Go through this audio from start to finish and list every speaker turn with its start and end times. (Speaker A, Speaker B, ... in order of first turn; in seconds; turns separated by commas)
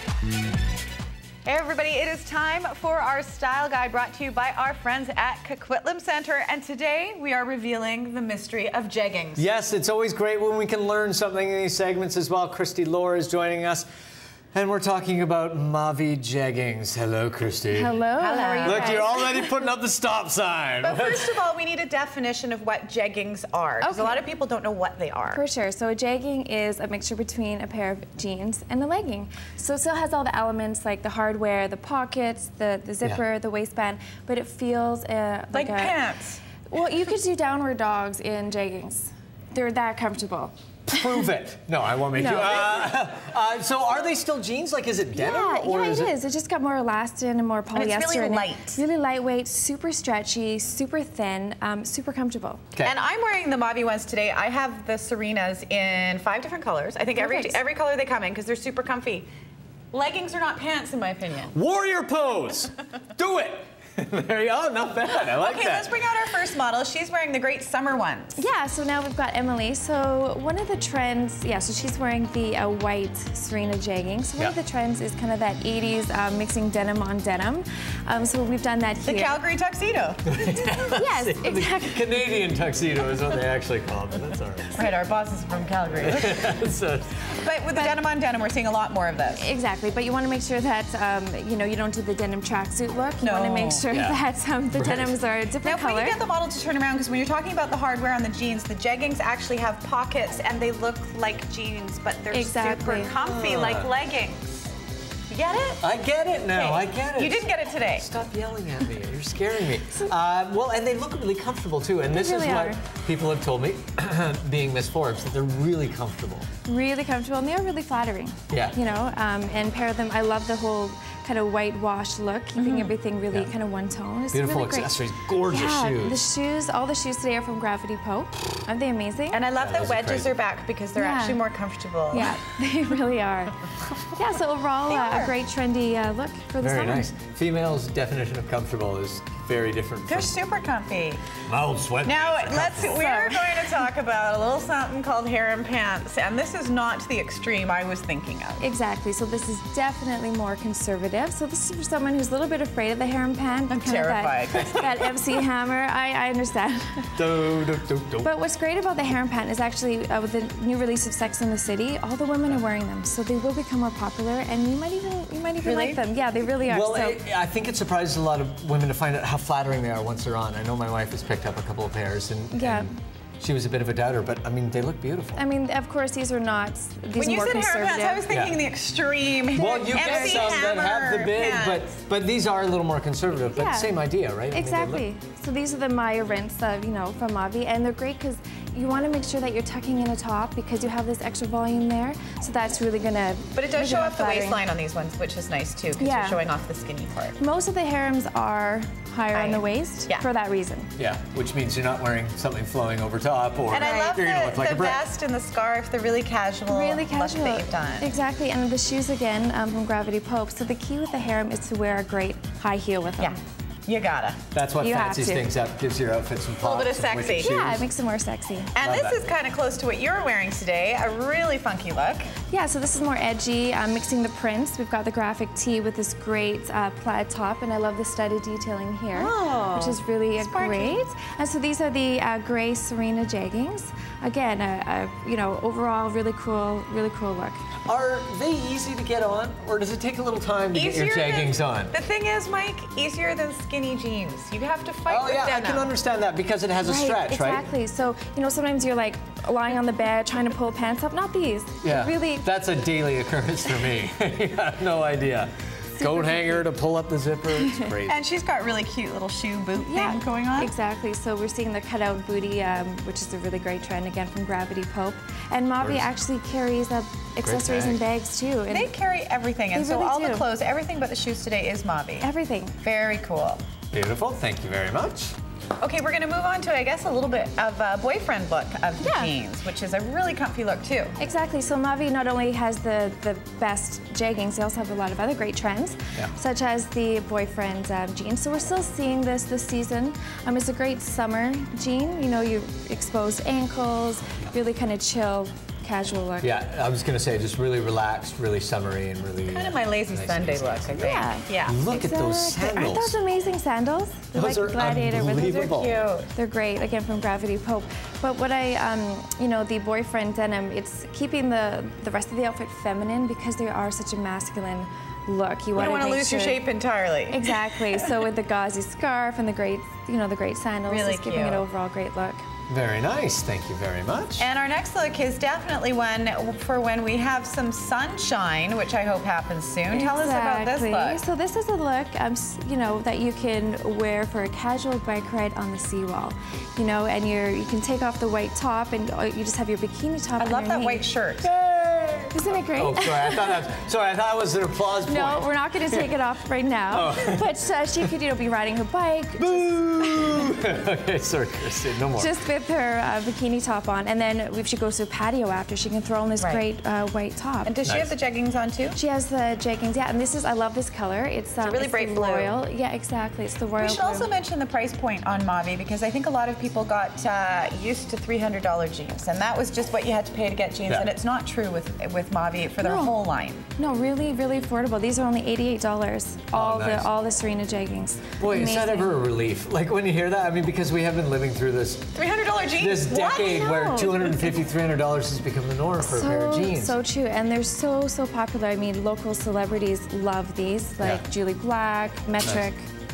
Speaker A: 1.4-9.5, Speaker B: 9.4-13.9, Speaker B: 14.5-18.0, Speaker C: 17.7-19.2, Speaker A: 18.2-19.1, Speaker B: 18.6-21.3, Speaker A: 20.8-25.4, Speaker C: 23.8-24.2, Speaker C: 25.3-36.0, Speaker A: 35.5-36.4, Speaker C: 36.7-41.2, Speaker B: 40.9-46.1, Speaker C: 42.1-42.9, Speaker C: 45.1-52.7, Speaker A: 47.7-48.8, Speaker A: 52.8-59.2, Speaker C: 57.1-57.6, Speaker A: 59.9-61.5, Speaker B: 61.5-66.0, Speaker A: 65.3-68.4, Speaker C: 68.3-79.4, Speaker A: 79.0-80.2, Speaker B: 80.2-84.8, Speaker C: 80.4-82.2, Speaker A: 84.7-86.5, Speaker B: 86.0-87.2, Speaker A: 87.4-89.5, Speaker C: 87.7-88.0, Speaker C: 89.4-96.2, Speaker A: 93.2-93.9, Speaker B: 93.9-94.2, Speaker B: 94.7-95.2, Speaker A: 95.6-104.6, Speaker C: 102.3-103.1, Speaker B: 103.1-103.9, Speaker A: 105.3-105.8, Speaker B: 105.8-107.4, Speaker A: 106.5-108.1, Speaker B: 108.0-116.5, Speaker C: 112.1-112.8, Speaker C: 116.6-129.5, Speaker B: 118.5-118.8, Speaker B: 124.3-126.2, Speaker A: 129.3-132.3, Speaker B: 129.6-130.3, Speaker C: 130.9-131.4, Speaker C: 132.1-137.1, Speaker A: 134.9-135.3, Speaker B: 136.6-140.3, Speaker A: 140.1-141.2, Speaker B: 141.5-143.0, Speaker A: 142.0-148.7, Speaker C: 142.9-143.8, Speaker C: 148.6-157.2, Speaker A: 153.7-155.1, Speaker B: 157.2-158.3, Speaker C: 158.2-167.2, Speaker A: 165.6-166.0, Speaker B: 166.6-175.4, Speaker C: 172.5-172.9, Speaker C: 175.3-178.2, Speaker A: 177.2-181.9, Speaker B: 178.3-178.6, Speaker B: 179.5-185.0, Speaker C: 179.6-180.6, Speaker C: 183.5-184.0, Speaker C: 184.5-194.6, Speaker A: 193.5-197.4, Speaker C: 196.0-196.4, Speaker C: 197.4-200.9, Speaker A: 199.3-200.2, Speaker B: 201.0-205.0, Speaker A: 203.7-208.1, Speaker C: 206.7-213.4, Speaker A: 213.2-214.4, Speaker B: 214.5-217.9, Speaker C: 214.8-215.5, Speaker A: 216.6-217.6, Speaker C: 217.3-218.7, Speaker A: 218.8-222.3, Speaker B: 218.8-219.3, Speaker C: 222.5-237.6, Speaker A: 229.1-231.0, Speaker B: 237.8-241.9, Speaker A: 240.7-245.9, Speaker B: 245.1-247.7, Speaker C: 246.8-252.5, Speaker B: 251.8-258.2, Speaker C: 255.9-256.6, Speaker C: 257.6-257.9, Speaker A: 258.1-260.7, Speaker C: 259.8-268.9, Speaker B: 265.8-266.1, Speaker B: 267.4-268.0, Speaker A: 268.7-272.3, Speaker C: 269.7-270.5, Speaker C: 272.2-272.8, Speaker A: 272.8-273.6, Speaker B: 273.9-275.4, Speaker A: 275.8-281.2, Speaker C: 279.0-279.3, Speaker C: 281.2-296.5, Speaker B: 296.4-303.2, Speaker A: 299.5-301.8, Speaker C: 301.0-305.8, Speaker B: 304.3-306.0, Speaker A: 305.5-306.3, Speaker C: 306.3-316.7, Speaker A: 315.7-318.1, Speaker C: 317.3-322.4, Speaker A: 320.9-321.6, Speaker B: 322.7-324.5, Speaker A: 324.4-331.2, Speaker C: 329.9-341.1, Speaker A: 340.4-341.5, Speaker B: 341.4-346.2, Speaker C: 342.3-343.6, Speaker C: 345.0-350.6, Speaker B: 346.9-347.5, Speaker B: 349.4-352.3, Speaker C: 352.2-357.8, Speaker A: 356.4-356.7, Speaker A: 357.6-359.0, Speaker B: 357.9-358.1, Speaker C: 359.0-364.3, Speaker A: 361.6-362.6, Speaker A: 363.8-373.7, Speaker C: 372.8-373.1, Speaker C: 373.8-379.1, Speaker B: 376.5-377.1, Speaker B: 378.4-382.1, Speaker A: 382.2-383.7, Speaker B: 382.8-387.0, Speaker C: 383.5-384.6, Speaker C: 386.0-392.9